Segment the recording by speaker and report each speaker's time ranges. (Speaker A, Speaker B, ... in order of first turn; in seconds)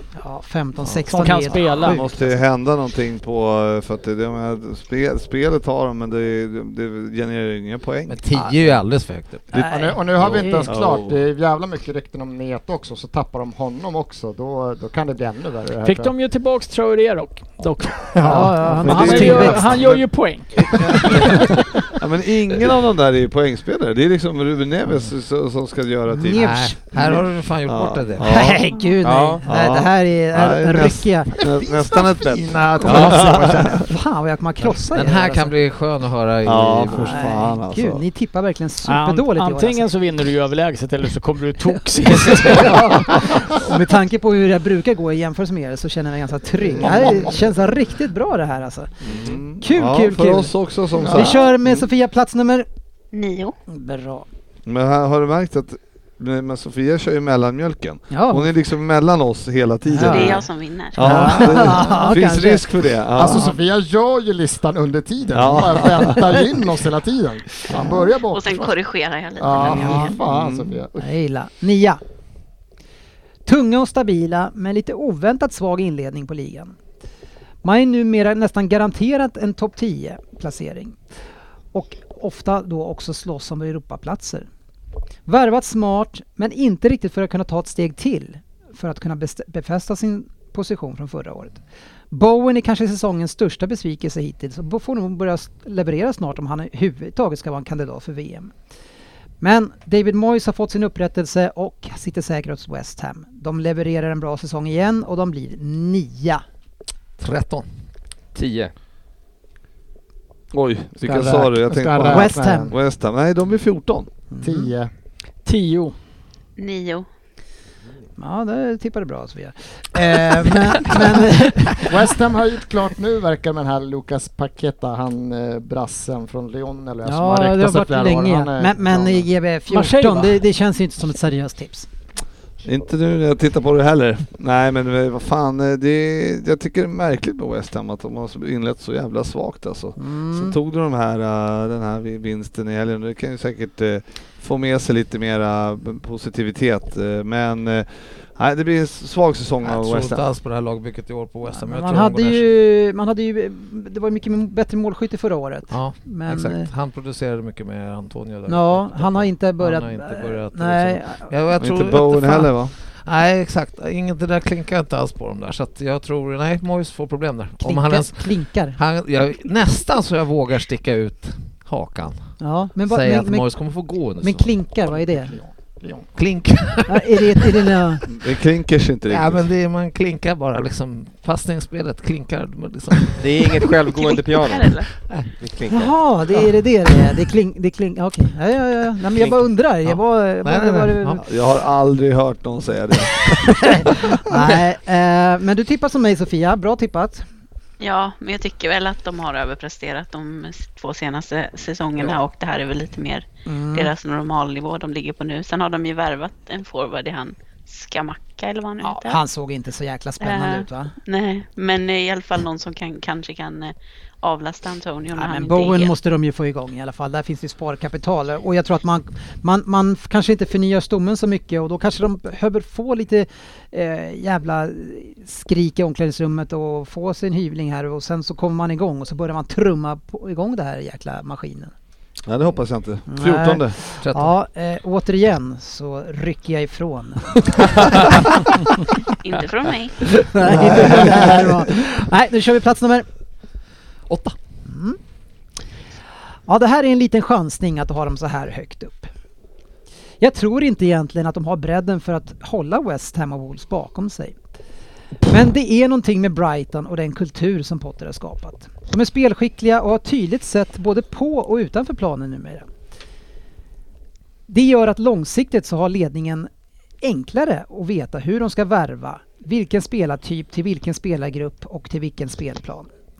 Speaker A: 0.2-2.3, 9.5-10.7, 18.2-19.7, 26.1-27.1, 28.2-31.4, 32.8-35.5, 36.9-39.9, 42.0-50.5, 51.1-52.7, 53.7-54.3, 58.1-58.5, 59.9-60.4, 61.0-62.7, 69.6-70.2, 71.0-72.0, 73.5-76.7, 77.6-81.0, 81.7-84.5, 85.3-91.6, 92.1-98.5, 99.4-106.4, 112.1-112.7, 114.3-114.7, 118.2-122.0, 127.0-131.9, 140.0-140.6, 151.5-156.7, 158.5-161.3, 167.6-168.8, 172.4-175.4, 176.9-178.1, 185.7-191.2, 193.5-197.2, 203.4-203.9, 208.8-210.9, 215.1-231.7, 233.1-238.4, 240.1-243.1, 244.7-245.0, 246.5-249.1, 250.2-254.4, 255.3-262.6, 264.5-266.5, 267.0-272.9
Speaker B: 1.1-2.1, 15.8-21.4, 38.9-43.1, 61.0-61.4, 115.4-115.9, 129.7-130.4
Speaker C: 1.6-8.7, 10.2-11.2, 18.6-28.6, 29.4-33.9, 36.4-38.0, 43.0-43.4, 46.6-47.4, 49.0-51.9, 54.6-63.5, 65.3-66.3, 70.0-70.8, 110.5-114.1, 132.6-150.2, 161.6-162.7, 178.1-179.5, 191.2-194.2, 232.2-233.8
Speaker D: 8.1-9.5, 26.4-28.5, 34.9-37.4, 61.6-62.1, 107.2-107.7, 149.6-152.5, 155.7-174.5, 176.2-177.7, 179.1-183.6, 185.0-185.3, 189.8-191.2, 234.0-234.3, 244.1-244.4
Speaker E: 9.6-16.1, 18.1-19.4, 31.4-33.9, 46.9-47.2, 51.0-51.4, 63.1-68.8, 69.4-71.1, 111.0-112.7, 114.4-114.9, 121.8-129.3, 175.2-176.1, 240.7-241.3
Speaker F: 29.0-29.4, 108.3-108.7, 183.2-184.8, 185.4-185.9
Speaker G: 53.1-53.5, 60.1-61.0, 68.3-70.2, 116.6-117.1, 183.9-184.9, 197.8-209.2, 210.2-215.9, 239.2-239.9